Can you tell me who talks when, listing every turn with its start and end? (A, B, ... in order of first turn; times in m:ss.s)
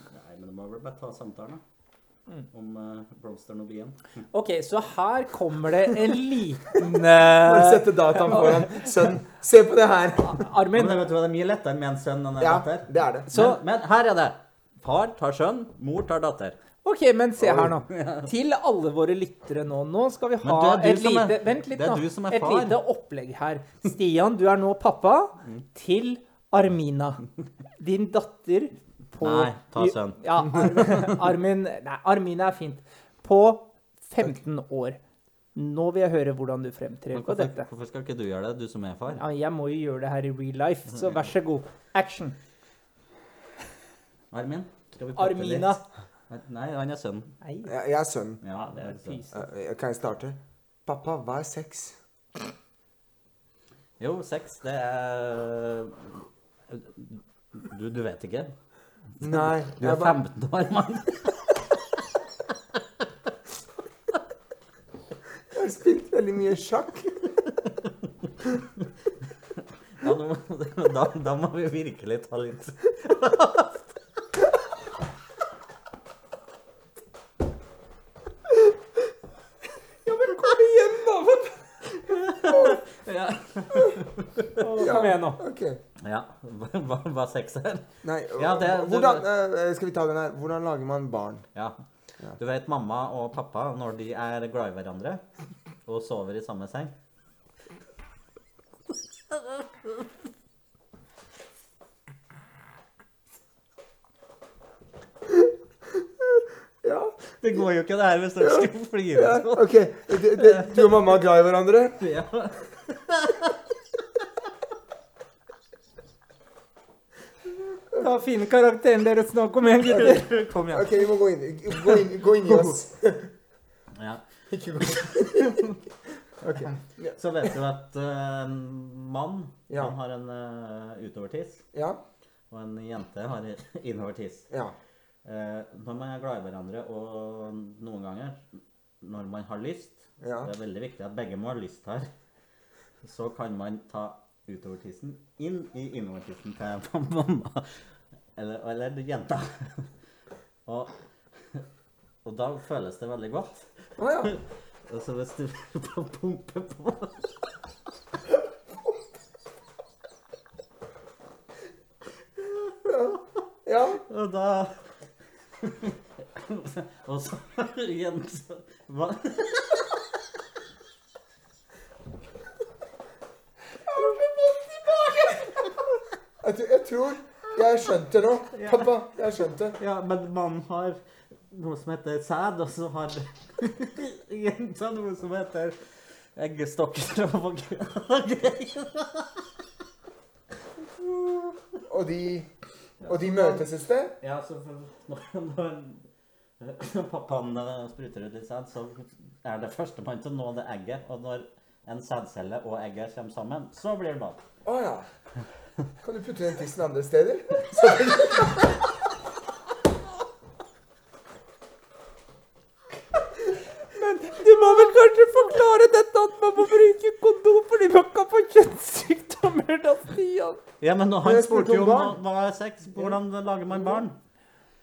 0:00.1-0:01.6 A
0:02.5-0:04.0 A
0:04.3-0:08.9 B
0:07.2-0:10.4 C
0:10.2-0:11.1 B
0:10.7-0:16.6 A
0:12.4-0:13.3 C
0:13.3-0:13.6 B
0:16.8-0:27.2 B
0:17.4-0:17.7 C
0:17.9-0:18.3 A
0:20.4-0:22.8 A
0:27.8-0:35.0 B
0:29.2-0:31.0 A
0:35.5-0:37.7 B
0:37.1-0:39.2 A
0:39.2-0:42.4 B
0:44.3-0:45.8 A
0:45.2-0:45.8 B
0:46.3-0:47.4 A
0:47.4-0:47.7 B
0:47.6-0:48.4 C
0:48.4-0:49.2 A
0:48.7-0:49.4 B
0:49.3-0:52.0 C
0:54.0-0:58.5 A
0:59.2-1:00.2 C
0:59.2-1:01.6 A
1:05.5-1:07.3 C
1:10.0-1:13.8 A
1:20.0-1:21.6 B
1:22.0-1:24.6 A
1:24.6-1:25.4 B
1:24.8-1:25.8 C
1:26.0-1:29.2 A
1:28.0-1:31.4 C
1:32.4-1:35.2 A
1:35.8-1:36.9 A
1:39.3-1:39.9 A
1:46.8-1:47.2 C
1:47.4-1:50.9 A
1:48.4-1:52.0 C
1:52.0-1:53.6 A
1:58.0-2:00.3 B
1:59.8-2:01.0 A
2:00.7-2:03.3 C
2:03.9-2:05.8 A
2:04.5-2:05.6 C
2:06.4-2:07.1 C
2:07.1-2:11.6 A
2:09.7-2:09.9 C
2:11.7-2:12.0 C
2:12.5-2:14.5 A
2:14.5-2:14.7 C
2:15.2-2:18.4 A
2:19.0-2:22.1 A
2:20.2-2:20.5 C
2:23.0-2:27.8 A
2:28.4-2:29.9 A
2:30.6-2:30.9 A
2:32.2-2:37.3 A
2:34.0-2:34.3 C
2:42.8-2:44.0 C
2:44.0-2:44.8 A
2:45.6-2:49.9 A
2:56.4-2:59.8 C
2:58.5-2:58.9 A
2:59.8-3:09.5 A
3:11.0-3:11.5 A
3:11.9-3:12.5 C
3:13.0-3:13.7 A
3:13.0-3:14.2 C
3:14.2-3:16.0 A
3:16.6-3:24.4 A
3:24.6-3:25.1 C
3:26.0-3:28.7 C
3:33.9-3:40.6 B
3:40.8-3:44.2 A
3:41.2-3:42.2 C